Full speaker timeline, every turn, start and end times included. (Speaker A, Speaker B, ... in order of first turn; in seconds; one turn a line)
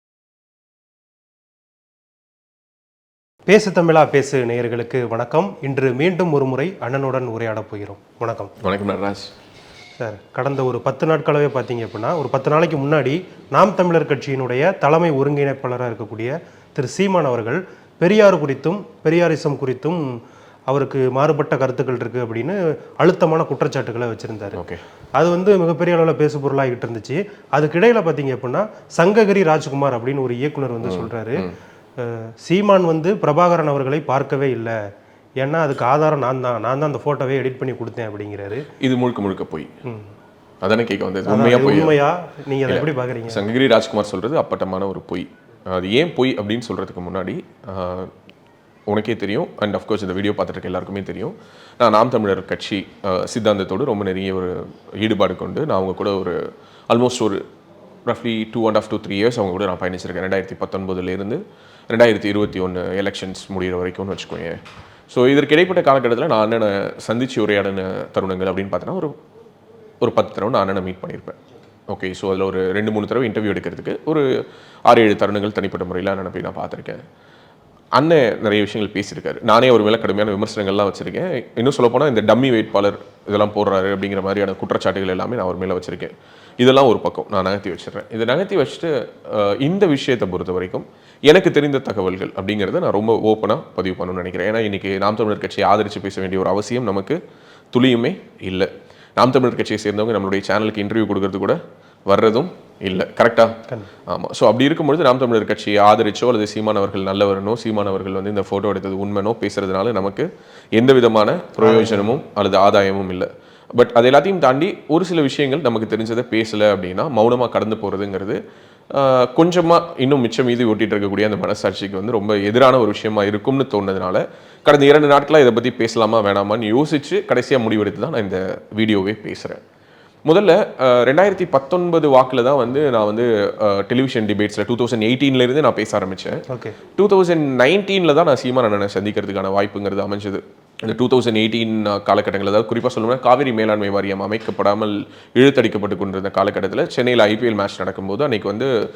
Speaker A: 3.5-8.5
Speaker B: 8.6-9.3
Speaker A: 10.0-20.1
Speaker A: 20.7-24.6
Speaker B: 24.6-24.8
Speaker A: 25.2-34.8
Speaker B: 30.8-31.5
Speaker A: 35.4-38.7
Speaker B: 38.8-39.7
Speaker B: 40.6-42.0
Speaker A: 41.3-43.4
Speaker B: 42.7-48.1
Speaker B: 48.9-56.4
Speaker B: 56.9-57.4
Speaker B: 58.0-64.6
Speaker B: 65.1-69.2
Speaker B: 70.0-71.4
Speaker B: 71.9-77.0
Speaker B: 77.9-97.2
Speaker B: 97.7-118.4
Speaker A: 111.6-112.1
Speaker B: 118.9-129.6
Speaker B: 130.2-136.4
Speaker A: 136.5-136.8
Speaker B: 136.9-148.7